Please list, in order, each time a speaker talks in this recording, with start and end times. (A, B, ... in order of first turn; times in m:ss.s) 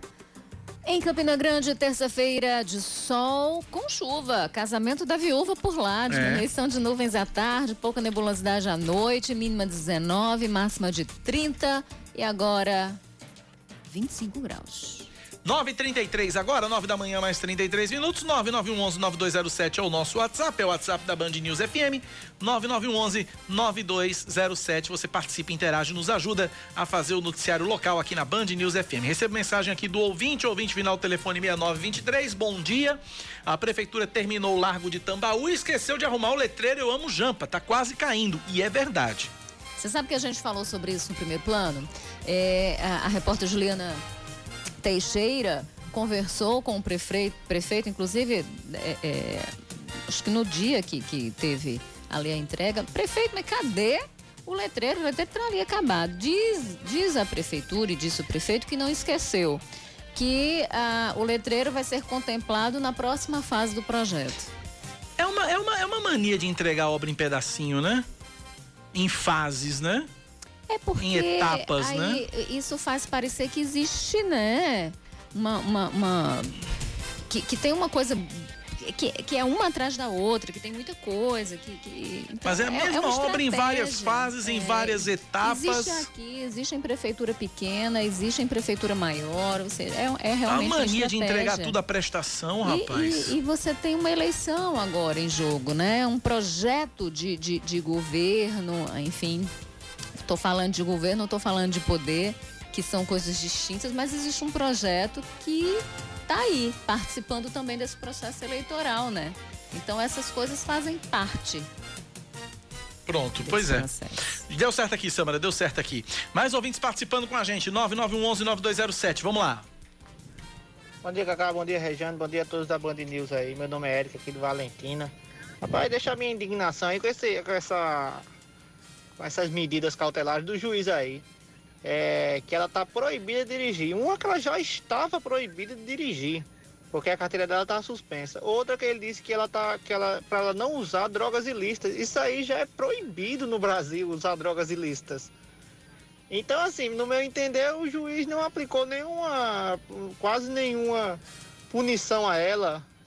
0:00.9-0:13.0 A
0:06.1-0:06.5 B
0:13.9-0:15.1 A
0:15.4-0:39.3 B
0:39.8-0:44.0 A
0:44.8-0:49.5 A
0:50.1-0:59.6 A
1:00.1-1:04.5 A
1:05.2-1:08.1 B
1:08.9-1:10.1 B
1:10.7-1:16.6 A
1:11.0-1:12.2 B
1:17.3-1:31.8 A
1:22.4-1:26.1 B
1:30.5-1:33.4 B
1:32.6-1:39.5 A
1:40.2-1:51.7 A
1:53.1-1:53.9 B
1:53.4-1:54.4 A
1:54.5-1:59.7 B
2:01.0-2:08.3 C
2:09.2-2:11.2 C
2:11.8-2:25.3 C
2:26.3-2:32.8 C